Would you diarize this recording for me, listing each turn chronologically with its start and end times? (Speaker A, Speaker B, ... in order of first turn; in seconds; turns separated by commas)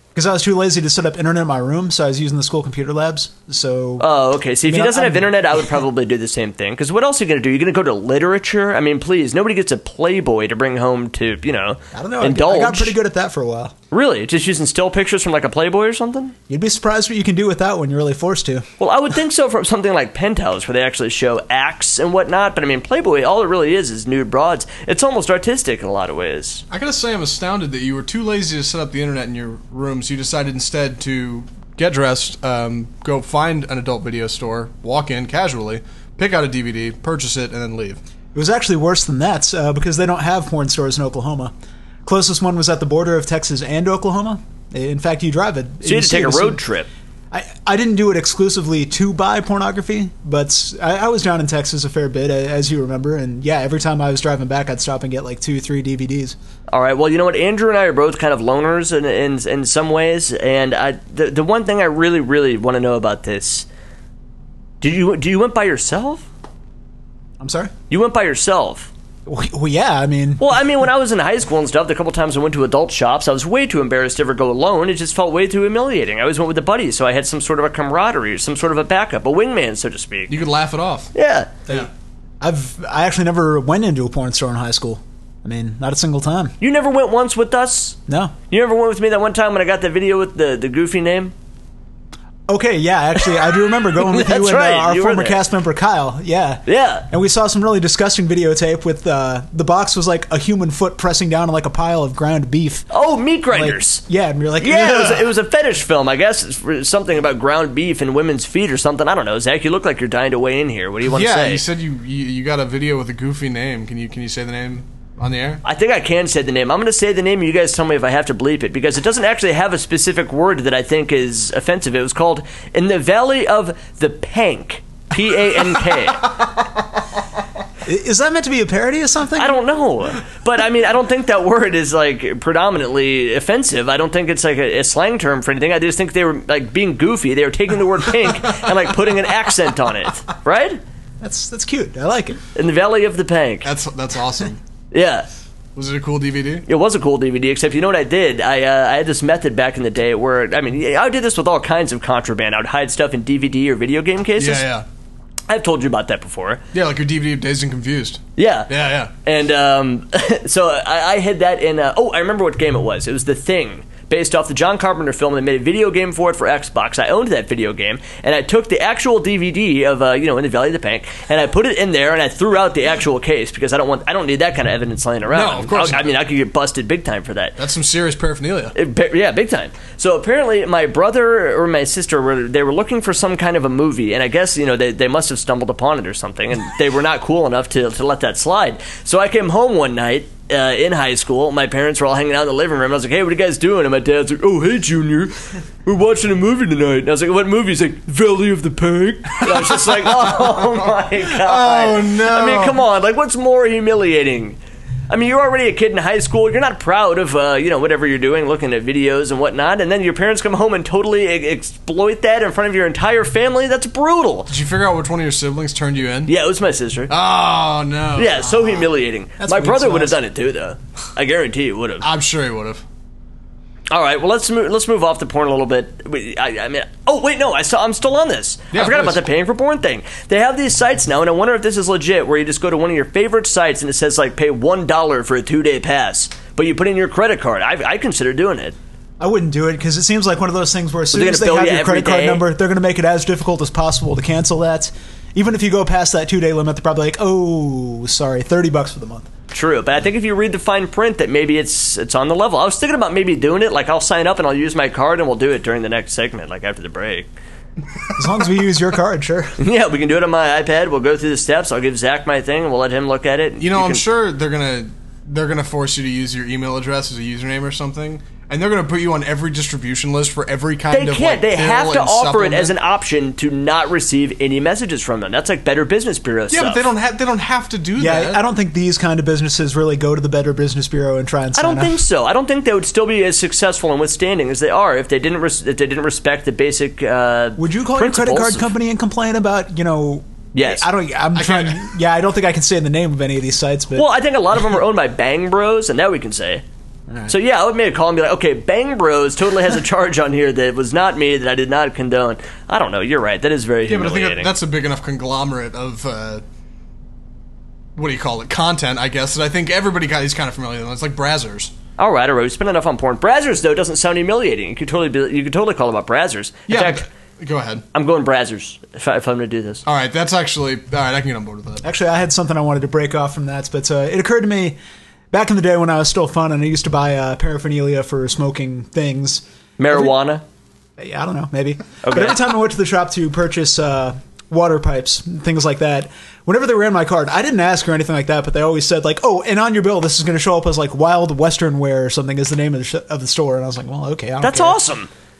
Speaker A: 0.1-4.1, Speaker B: 4.0-13.0, Speaker A: 4.7-5.8, Speaker A: 11.9-13.7, Speaker B: 13.9-16.4, Speaker A: 16.5-18.7, Speaker B: 18.8-26.6, Speaker C: 26.7-38.0, Speaker A: 38.3-41.5, Speaker A: 42.0-46.6, Speaker B: 45.8-46.9, Speaker A: 47.3-56.4, Speaker B: 56.7-63.7, Speaker B: 64.8-66.3, Speaker A: 67.4-67.7, Speaker B: 67.9-68.9, Speaker A: 69.3-70.6, Speaker B: 70.4-80.4, Speaker C: 80.3-81.1, Speaker B: 81.1-81.5, Speaker A: 82.4-86.5, Speaker B: 86.6-88.0, Speaker A: 88.1-88.3, Speaker B: 88.5-91.3, Speaker A: 92.5-102.9, Speaker B: 93.6-95.4, Speaker B: 96.7-97.1, Speaker B: 102.9-104.0, Speaker A: 103.5-105.3, Speaker B: 104.6-111.6, Speaker C: 111.0-115.6, Speaker B: 115.6-126.3, Speaker A: 127.8-129.6, Speaker B: 129.4-140.8, Speaker A: 141.2-142.4, Speaker B: 142.6-143.7, Speaker C: 143.6-144.6, Speaker B: 144.9-145.3, Speaker C: 145.8-146.7, Speaker B: 146.7-154.7, Speaker C: 154.4-154.8, Speaker B: 155.5-156.6, Speaker C: 156.7-159.1, Speaker B: 158.4-158.7, Speaker B: 159.2-177.6, Speaker C: 175.3-176.1, Speaker C: 177.6-178.8, Speaker B: 178.8-204.6, Speaker C: 199.4-202.8, Speaker B: 205.1-214.5, Speaker C: 214.5-216.3, Speaker B: 216.3-217.1, Speaker C: 217.1-218.6, Speaker B: 218.2-222.1, Speaker A: 219.4-220.2, Speaker C: 222.0-222.8, Speaker B: 223.9-238.8, Speaker C: 228.7-229.2, Speaker A: 239.2-249.3, Speaker B: 241.1-242.4, Speaker B: 249.5-257.3, Speaker A: 258.2-259.6, Speaker B: 259.6-264.0, Speaker C: 263.6-272.8, Speaker B: 270.9-276.9, Speaker C: 276.5-278.4, Speaker A: 278.0-282.0, Speaker B: 281.6-288.7, Speaker A: 287.6-294.1, Speaker B: 290.5-290.9, Speaker C: 291.4-291.9, Speaker B: 293.9-296.6, Speaker A: 297.1-297.3, Speaker B: 297.3-304.5, Speaker C: 303.9-306.4, Speaker C: 308.0-311.7, Speaker B: 312.0-317.1, Speaker C: 316.7-317.9, Speaker B: 317.9-319.8, Speaker C: 319.9-321.8, Speaker A: 321.8-324.8, Speaker A: 325.3-330.1, Speaker B: 329.8-330.4, Speaker A: 331.0-344.8, Speaker B: 332.0-332.4, Speaker B: 344.4-345.1